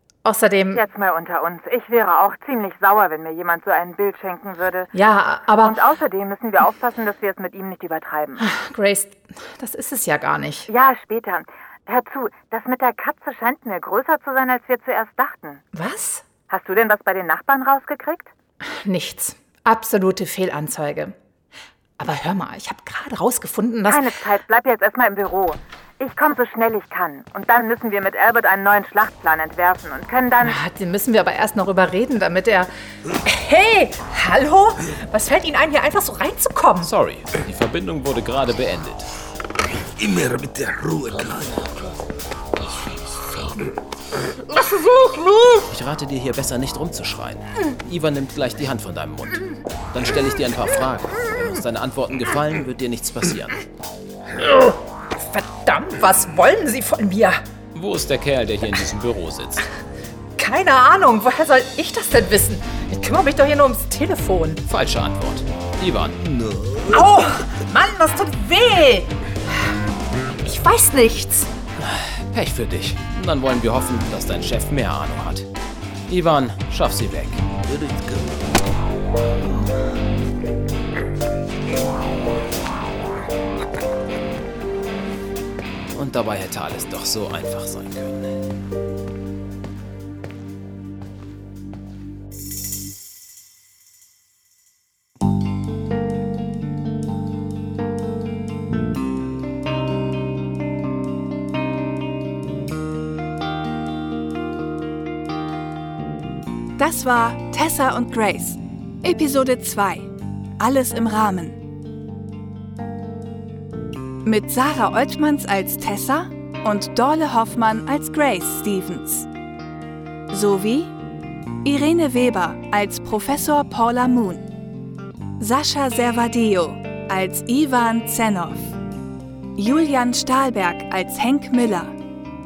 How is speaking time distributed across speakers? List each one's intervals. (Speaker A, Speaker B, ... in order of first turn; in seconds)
Speaker A: 0.2-0.8, 4.9-5.8, 8.4-10.7, 15.7-16.2, 18.8-21.1, 22.0-24.1, 30.4-32.7, 33.2-36.9, 54.4-57.4, 60.4-64.6, 66.9-69.1, 70.4-71.5
Speaker B: 0.7-4.9, 5.6-8.4, 10.7-15.6, 16.5-18.3, 23.9-30.6
Speaker C: 36.8-39.1, 45.7-53.6, 57.8-59.7, 64.7-66.2, 71.8-75.5, 76.1-77.4, 85.9-88.4
Speaker D: 39.9-41.7, 45.1-45.4, 66.2-67.0, 77.6-78.5
Speaker E: 106.8-111.6, 114.2-119.3, 120.3-120.9, 121.6-124.5, 125.4-128.8, 129.6-131.9